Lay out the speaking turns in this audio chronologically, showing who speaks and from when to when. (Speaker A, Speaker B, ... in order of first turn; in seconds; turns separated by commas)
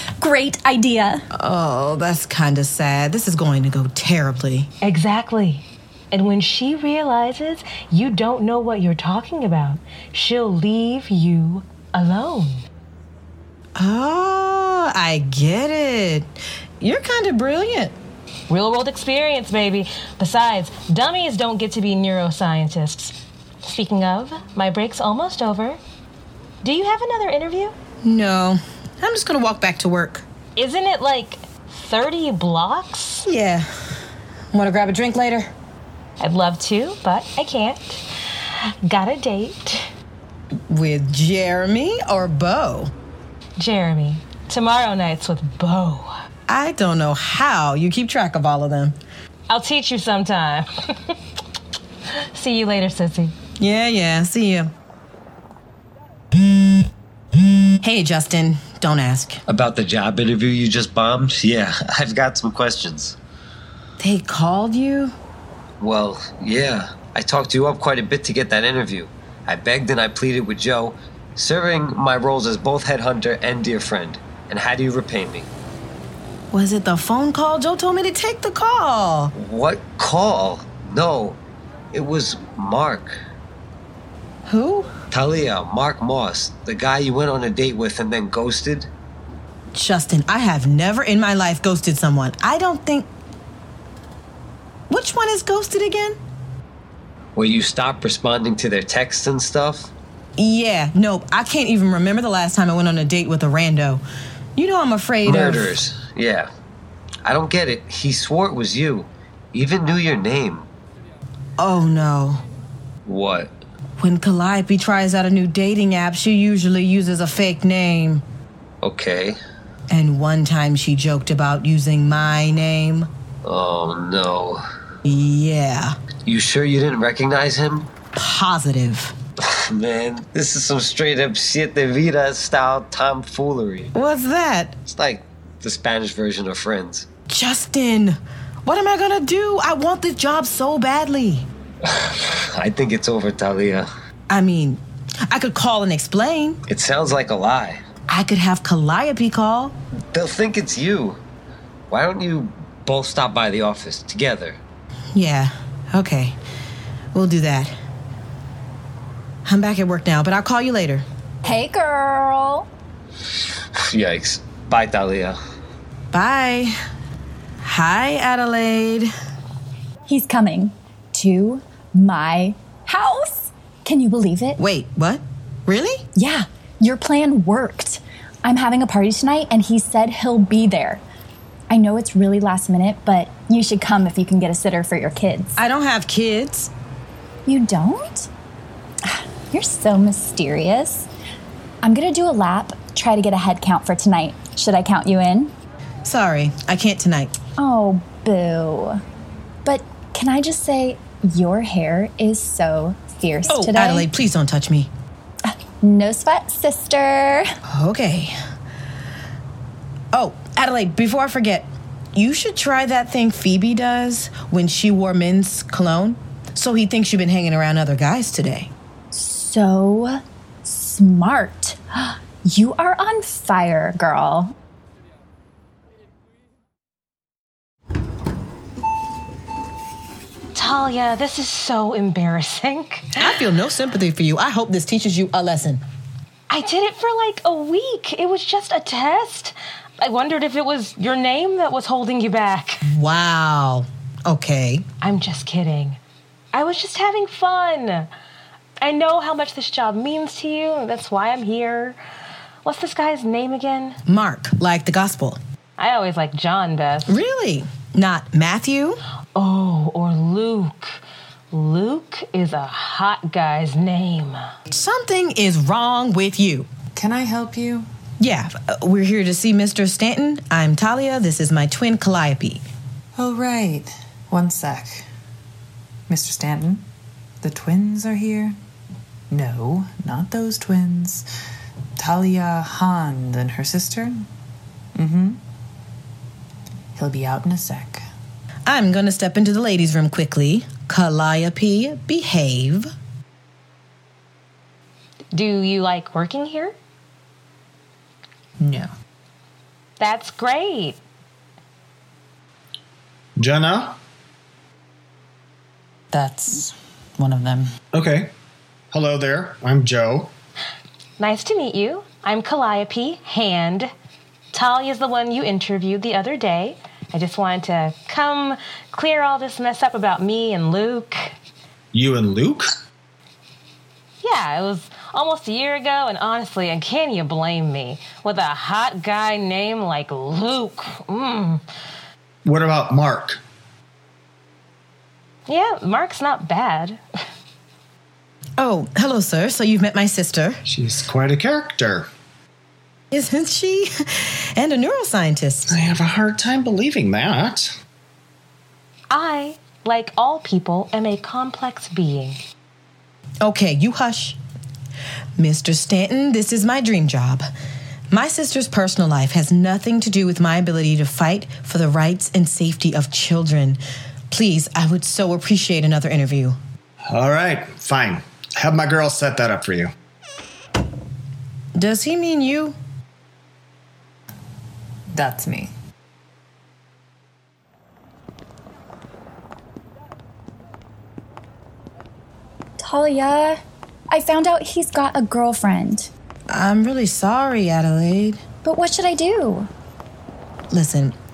Speaker A: 0.2-1.2, Speaker B: 1.3-4.7, Speaker C: 4.8-12.7, Speaker B: 13.8-18.0, Speaker C: 18.5-25.8, Speaker C: 26.6-27.7, Speaker B: 28.0-30.2, Speaker C: 30.6-33.3, Speaker B: 33.3-33.7, Speaker B: 34.5-35.5, Speaker C: 36.2-39.9, Speaker B: 40.7-42.9, Speaker C: 43.6-46.1, Speaker B: 46.5-49.0, Speaker C: 49.5-51.2, Speaker C: 52.2-53.3, Speaker B: 53.6-54.7, Speaker B: 57.8-59.4, Speaker D: 59.5-63.2, Speaker B: 64.0-65.1, Speaker D: 65.8-75.5, Speaker B: 76.5-79.3, Speaker D: 79.3-81.4, Speaker D: 81.9-83.1, Speaker B: 84.5-84.9, Speaker D: 85.1-88.9, Speaker B: 89.7-93.1, Speaker B: 94.9-96.2, Speaker D: 97.4-99.9, Speaker B: 100.4-104.0, Speaker B: 104.6-105.8, Speaker D: 105.2-106.5, Speaker D: 107.2-110.7, Speaker B: 111.6-112.4, Speaker D: 113.0-113.5, Speaker B: 114.0-118.2, Speaker D: 118.8-119.4, Speaker B: 119.9-123.1, Speaker D: 123.4-124.6, Speaker B: 125.0-126.0, Speaker D: 126.2-127.9, Speaker B: 128.2-129.2, Speaker D: 129.4-133.9, Speaker B: 133.9-134.8, Speaker D: 134.9-137.1, Speaker B: 137.3-141.5, Speaker D: 141.9-143.9, Speaker B: 144.3-146.6, Speaker D: 146.7-147.8, Speaker B: 148.1-149.8, Speaker D: 150.1-151.2, Speaker D: 151.9-154.6, Speaker B: 155.2-156.4, Speaker B: 157.1-157.7, Speaker B: 159.4-161.0, Speaker A: 161.4-162.7, Speaker D: 163.8-165.4, Speaker B: 166.1-166.8, Speaker B: 167.6-169.1, Speaker A: 170.1-174.6, Speaker B: 174.6-176.1, Speaker A: 176.2-181.0, Speaker A: 181.7-185.6, Speaker B: 185.6-186.7, Speaker A: 187.5-188.3, Speaker A: 189.1-191.1, Speaker A: 191.8-195.5, Speaker B: 196.1-197.4, Speaker A: 197.6-199.0, Speaker A: 199.7-204.1, Speaker B: 203.5-204.9, Speaker A: 205.5-207.4, Speaker B: 207.7-208.4, Speaker B: 210.1-218.7, Speaker A: 219.1-224.5, Speaker C: 230.6-233.2, Speaker B: 233.2-235.8, Speaker C: 236.5-242.8, Speaker B: 242.9-244.8, Speaker C: 245.0-246.0, Speaker C: 246.5-248.1, Speaker C: 248.8-252.0, Speaker C: 252.7-254.0, Speaker B: 254.1-255.4, Speaker C: 255.8-257.1, Speaker B: 257.1-259.0, Speaker C: 259.4-261.0, Speaker C: 261.5-264.4, Speaker B: 264.7-266.7, Speaker E: 266.9-267.9, Speaker B: 268.2-272.6, Speaker E: 273.2-275.1, Speaker E: 276.1-276.9, Speaker E: 277.4-278.6, Speaker E: 279.3-281.3, Speaker E: 282.0-284.3, Speaker E: 284.9-285.4, Speaker E: 286.9-288.0, Speaker B: 288.7-292.9, Speaker C: 295.3-296.8, Speaker E: 298.6-298.9, Speaker C: 300.0-301.0, Speaker F: 303.4-304.0, Speaker E: 306.1-307.7, Speaker F: 307.9-308.3, Speaker F: 308.9-310.3, Speaker C: 311.2-313.9, Speaker C: 314.5-321.4, Speaker F: 321.9-322.8, Speaker C: 324.2-331.6, Speaker F: 332.4-333.4, Speaker C: 335.5-337.0, Speaker B: 338.6-340.6, Speaker F: 340.7-342.1, Speaker B: 343.1-345.7, Speaker F: 345.7-347.7, Speaker C: 349.1-352.4, Speaker B: 353.4-354.4, Speaker B: 355.4-357.5, Speaker B: 358.1-363.8, Speaker B: 364.3-366.6, Speaker F: 367.1-369.9, Speaker B: 371.8-372.8, Speaker E: 375.1-375.7, Speaker A: 382.8-383.6, Speaker A: 384.1-386.1, Speaker B: 386.5-388.4, Speaker A: 388.6-389.7, Speaker B: 390.7-391.1